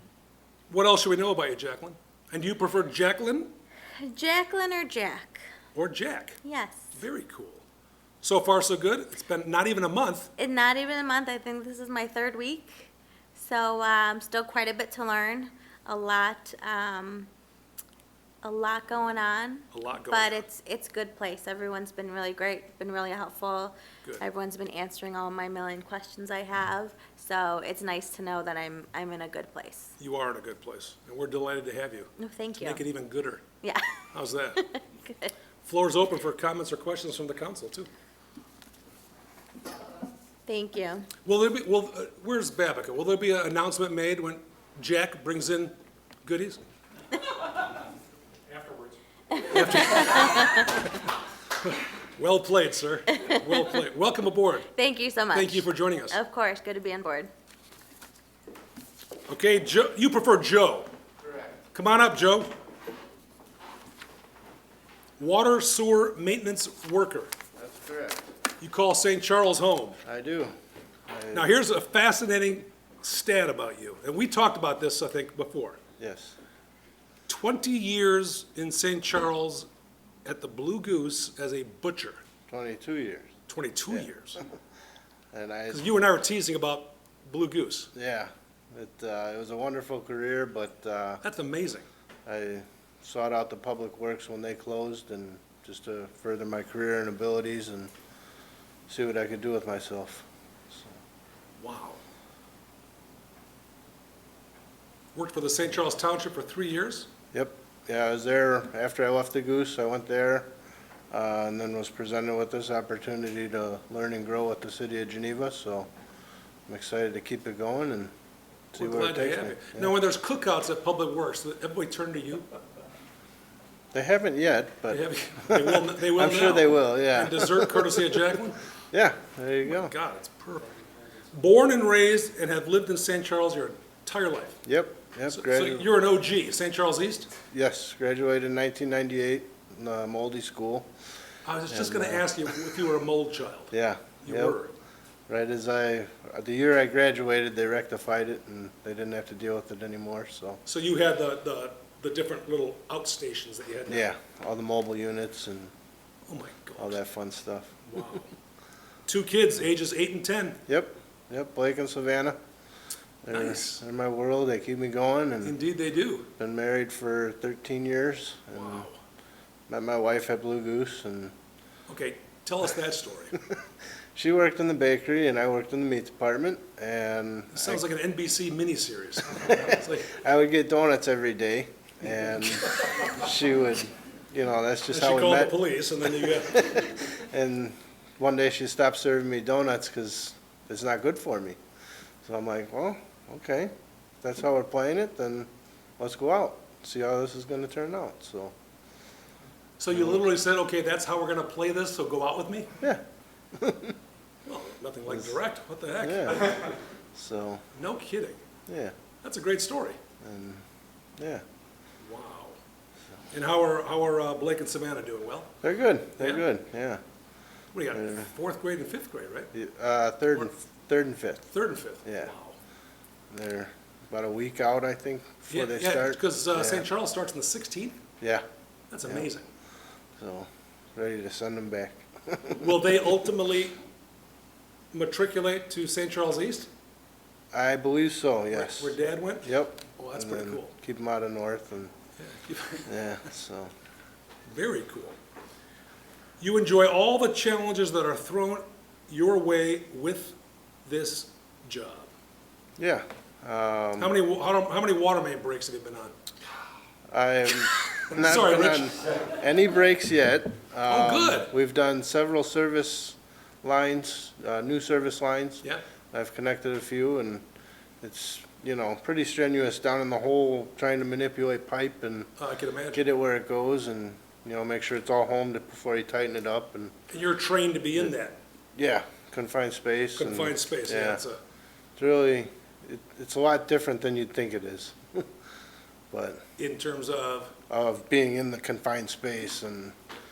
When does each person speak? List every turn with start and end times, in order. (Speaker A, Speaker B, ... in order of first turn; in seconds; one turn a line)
Speaker A: 0.7-3.5
Speaker B: 4.0-5.5
Speaker A: 5.7-6.4
Speaker B: 6.4-6.9
Speaker A: 6.9-7.6
Speaker A: 8.2-10.3
Speaker B: 10.4-17.3
Speaker B: 18.4-29.9
Speaker A: 19.7-20.4
Speaker A: 30.0-33.5
Speaker B: 32.2-32.8
Speaker B: 33.6-34.0
Speaker A: 34.1-34.6
Speaker B: 34.6-35.3
Speaker A: 35.6-37.9
Speaker B: 40.5-41.1
Speaker A: 41.2-46.6
Speaker A: 48.5-50.9
Speaker B: 49.3-50.8
Speaker A: 51.6-54.7
Speaker B: 53.1-53.4
Speaker B: 54.7-57.3
Speaker A: 55.3-56.2
Speaker A: 59.3-60.9
Speaker C: 61.2-61.5
Speaker A: 61.7-62.5
Speaker A: 65.2-67.3
Speaker C: 67.5-68.3
Speaker A: 68.6-70.0
Speaker C: 70.0-70.5
Speaker C: 71.1-71.5
Speaker A: 71.3-75.8
Speaker C: 76.0-76.3
Speaker A: 77.3-79.7
Speaker A: 80.2-82.2
Speaker C: 82.5-83.3
Speaker A: 83.5-84.4
Speaker C: 85.3-85.9
Speaker A: 85.7-87.9
Speaker C: 87.9-91.2
Speaker A: 91.2-91.8
Speaker C: 92.2-97.9
Speaker C: 98.9-100.9
Speaker A: 101.6-102.0
Speaker A: 105.1-107.1
Speaker C: 107.3-110.5
Speaker C: 111.1-115.9
Speaker C: 116.7-118.1
Speaker C: 118.7-120.0
Speaker A: 118.8-122.5
Speaker C: 123.9-128.3
Speaker A: 124.9-128.6
Speaker C: 128.9-129.9
Speaker A: 129.6-134.6
Speaker C: 134.6-135.9
Speaker A: 135.3-137.3
Speaker C: 137.5-140.9
Speaker A: 141.4-144.7
Speaker C: 141.7-142.7
Speaker C: 143.7-144.6
Speaker C: 145.3-150.6
Speaker A: 150.6-154.1
Speaker C: 153.9-155.7
Speaker A: 156.3-157.0
Speaker C: 156.8-157.8
Speaker A: 157.9-158.3
Speaker A: 159.1-160.6
Speaker C: 160.7-162.4
Speaker C: 163.2-165.6
Speaker A: 163.3-163.8
Speaker A: 165.4-166.3
Speaker C: 166.4-168.9
Speaker A: 168.5-169.0
Speaker C: 169.7-171.3
Speaker A: 171.9-173.4
Speaker C: 174.1-177.8
Speaker A: 177.5-180.1
Speaker C: 179.3-185.6
Speaker A: 182.4-183.1
Speaker A: 184.9-186.7
Speaker C: 186.2-191.6
Speaker C: 192.2-198.5
Speaker A: 199.8-202.7
Speaker C: 199.9-200.2
Speaker C: 202.8-203.9
Speaker A: 204.4-206.8
Speaker C: 205.1-205.4
Speaker C: 206.0-206.6
Speaker C: 207.1-207.6
Speaker A: 207.7-208.4
Speaker C: 208.7-208.9
Speaker A: 209.2-210.0
Speaker C: 210.2-210.6
Speaker C: 211.2-211.4
Speaker A: 212.0-212.6
Speaker A: 213.3-215.5
Speaker C: 215.6-217.0
Speaker A: 216.2-216.4
Speaker A: 217.7-219.5
Speaker C: 217.9-218.3
Speaker C: 219.5-221.5
Speaker A: 221.5-222.6
Speaker C: 222.0-222.3
Speaker C: 223.3-226.9
Speaker A: 225.5-228.0
Speaker A: 228.9-229.5
Speaker C: 230.2-232.9
Speaker A: 232.6-233.8
Speaker A: 234.9-236.7
Speaker C: 237.5-241.9
Speaker A: 238.5-240.7
Speaker A: 242.2-242.9
Speaker C: 242.8-243.7
Speaker A: 244.5-245.2
Speaker A: 246.4-252.1
Speaker C: 252.8-254.1
Speaker A: 254.0-256.1
Speaker C: 257.1-267.4
Speaker A: 257.6-259.3
Speaker A: 260.9-261.5
Speaker C: 268.0-272.3
Speaker A: 272.4-273.1
Speaker C: 272.9-276.9
Speaker A: 277.1-278.4
Speaker C: 278.8-281.2
Speaker A: 280.1-281.4
Speaker C: 282.0-285.3
Speaker C: 286.1-286.4
Speaker A: 286.6-287.5
Speaker C: 287.7-289.9